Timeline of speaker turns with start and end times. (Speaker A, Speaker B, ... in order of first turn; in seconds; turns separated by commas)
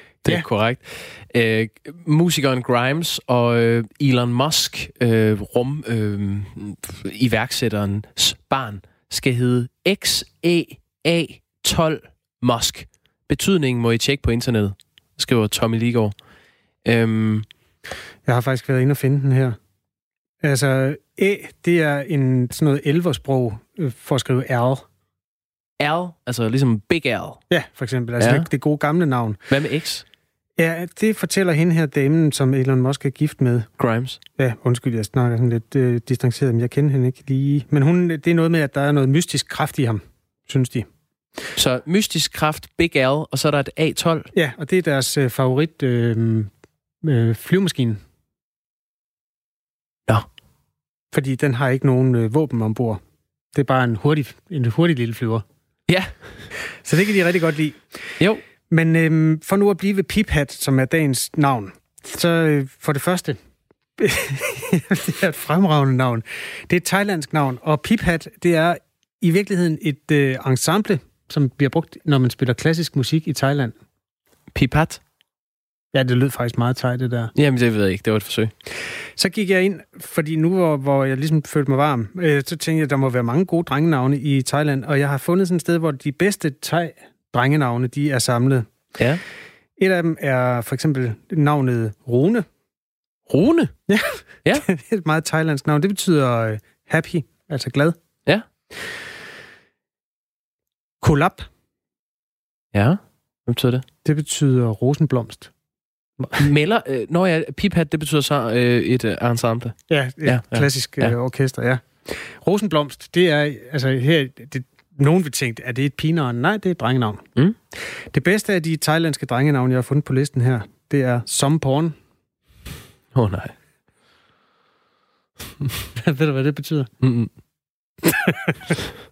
Speaker A: 0.2-16.1, Speaker A: 16.9-17.5, Speaker B: 18.2-19.6, Speaker B: 20.4-24.9, Speaker A: 25.8-27.4, Speaker B: 27.5-29.4, Speaker A: 28.2-28.5, Speaker A: 29.5-30.1, Speaker B: 30.6-33.7, Speaker A: 33.8-34.2, Speaker B: 34.4-40.9, Speaker A: 41.6-44.3, Speaker B: 44.3-46.5, Speaker B: 47.0-48.0, Speaker B: 51.1-53.0, Speaker B: 53.5-55.5, Speaker A: 55.9-56.5, Speaker B: 56.8-63.4, Speaker B: 64.0-73.8, Speaker A: 74.5-75.0, Speaker B: 75.9-77.3, Speaker A: 77.3-78.5, Speaker B: 79.1-88.7, Speaker B: 89.8-92.5, Speaker A: 93.3-93.8, Speaker B: 93.9-98.0, Speaker B: 101.0-101.5, Speaker A: 102.7-103.8, Speaker B: 104.0-105.5, Speaker A: 106.4-111.2, Speaker B: 109.9-122.0, Speaker A: 123.1-123.5, Speaker B: 126.0-126.9, Speaker A: 127.0-127.3